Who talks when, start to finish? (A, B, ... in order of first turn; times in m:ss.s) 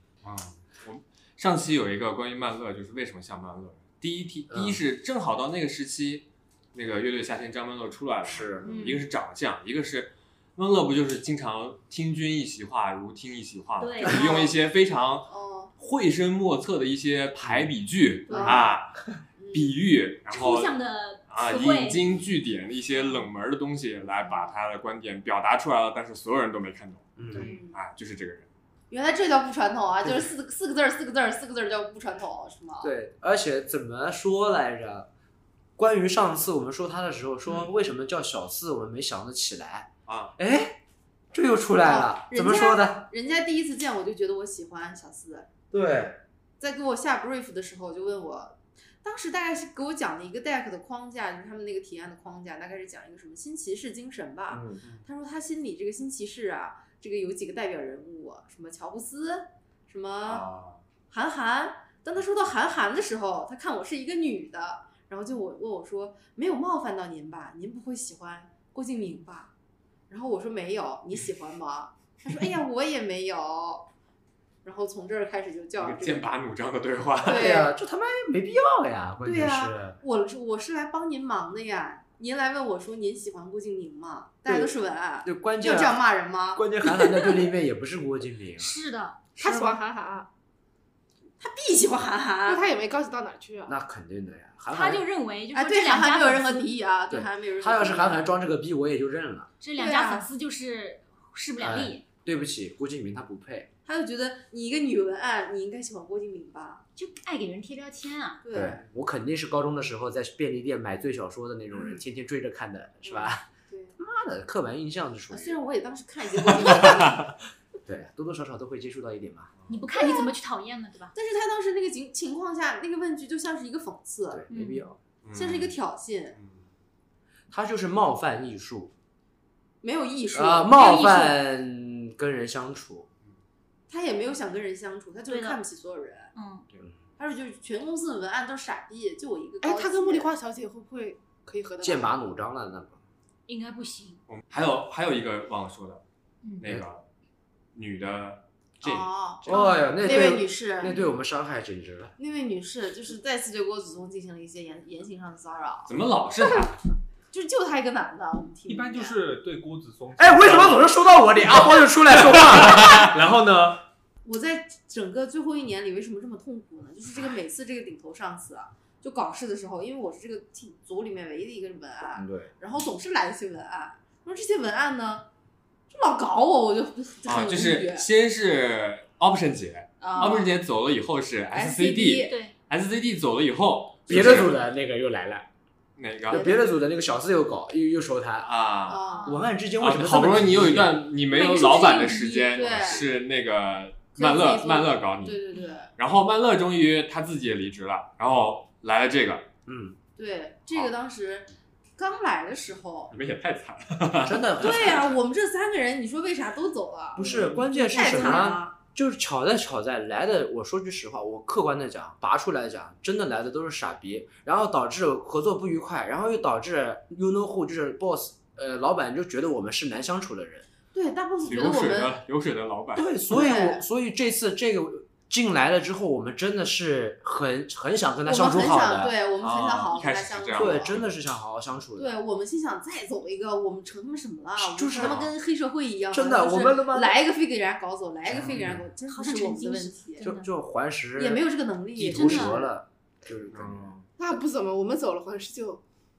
0:00.2-0:15.3 A
0:04.5-0:04.8 B
0:08.2-0:08.7 B
0:08.6-0:08.9 C
0:08.6-0:09.0 D
0:13.8-0:14.4 D
0:14.1-0:14.4 C
0:15.2-0:15.7 C
0:15.8-0:19.0 A
0:17.4-0:17.7 B
0:18.3-0:18.6 C
0:19.4-0:19.7 C
0:19.5-0:20.7 A
0:20.3-0:22.2 D
0:21.3-0:28.5 A
0:24.2-0:24.5 D
0:27.2-0:27.5 B
0:27.3-0:27.7 C
0:28.9-0:32.9 C
0:32.8-0:35.1 B
0:35.8-0:40.8 B
0:40.1-0:40.3 A
0:41.3-0:43.0 B
0:41.8-0:45.5 C
0:45.7-0:46.2 B
0:46.6-1:00.4 C
0:54.5-0:54.8 B
1:00.2-1:00.8 A
1:01.1-1:09.5 C
1:10.1-1:13.9 C
1:14.6-1:16.3 C
1:15.8-1:17.5 A
1:17.2-1:17.7 C
1:17.3-1:20.0 B
1:19.2-1:27.4 C
1:24.4-1:24.7 B
1:25.2-1:26.0 B
1:26.5-1:28.8 B
1:28.6-1:29.2 D
1:29.4-1:30.3 E
1:31.4-1:32.6 C
1:32.4-1:33.7 E
1:33.6-1:35.0 B
1:34.7-1:36.7 D
1:35.5-1:38.3 C
1:37.1-1:39.5 B
1:39.6-1:42.0 D
1:39.8-1:40.3 C
1:41.6-1:43.7 B
1:43.8-1:46.8 C
1:47.0-1:48.4 D
1:48.4-1:48.8 C
1:48.5-1:53.4 B
1:53.0-1:54.0 C
1:54.0-1:55.6 B
1:55.3-1:57.2 C
1:56.5-1:57.0 B
1:57.8-1:59.5 B
1:59.7-2:01.1 D
1:59.9-2:00.3 C
2:01.1-2:04.4 C
2:04.3-2:05.0 B
2:04.5-2:04.8 D
2:05.2-2:05.7 A
2:05.3-2:06.3 C
2:07.5-2:08.9 B
2:09.8-2:11.3 C
2:10.3-2:13.1 B
2:10.8-2:11.2 D
2:13.9-2:16.3 C
2:15.3-2:15.6 D
2:16.3-2:16.6 D
2:17.2-2:20.3 C
2:19.6-2:22.1 E
2:21.8-2:23.0 B
2:23.5-2:24.2 D
2:24.3-2:26.0 A
2:26.6-2:27.0 A
2:27.7-2:28.9 A
2:28.8-2:30.9 C
2:28.8-2:32.1 B
2:30.1-2:30.4 E
2:32.2-2:35.9 C
2:35.9-2:36.8 A
2:37.3-2:39.2 C
2:38.7-2:40.9 F
2:40.2-2:43.1 B
2:42.3-2:43.8 F
2:44.2-2:55.3 C
2:52.2-2:52.5 B
2:55.9-2:58.1 C
2:57.2-3:04.5 A
3:00.0-3:00.5 C
3:01.5-3:02.3 C
3:02.2-3:02.5 D
3:04.1-3:05.5 B
3:06.0-3:06.4 A
3:06.3-3:08.5 B
3:06.3-3:06.6 C
3:08.4-3:09.0 A
3:08.9-3:09.4 C
3:09.1-3:09.4 D
3:09.2-3:11.0 B
3:09.8-3:15.4 A
3:11.3-3:12.5 D
3:12.5-3:13.0 C
3:14.1-3:15.9 C
3:16.0-3:19.5 A
3:19.6-3:20.0 B
3:20.2-3:21.5 C
3:22.0-3:23.1 C
3:23.1-3:24.9 A
3:24.2-3:25.1 B
3:24.6-3:28.8 C
3:27.1-3:40.7 B
3:27.2-3:27.6 A
3:40.9-3:42.2 C
3:41.4-3:43.1 A
3:43.0-3:49.1 B
3:43.3-3:43.8 C
3:48.2-3:51.0 C
3:49.4-3:51.1 A
3:50.5-3:52.1 B
3:52.0-4:00.3 C
3:54.6-3:55.2 B
3:55.0-3:55.3 A
3:56.1-3:57.2 B
3:58.3-3:58.8 B
3:58.3-3:58.8 A
3:59.1-4:00.5 D
4:00.2-4:03.9 B
4:01.2-4:02.7 C
4:02.0-4:02.6 D
4:03.5-4:04.0 A
4:04.2-4:05.8 E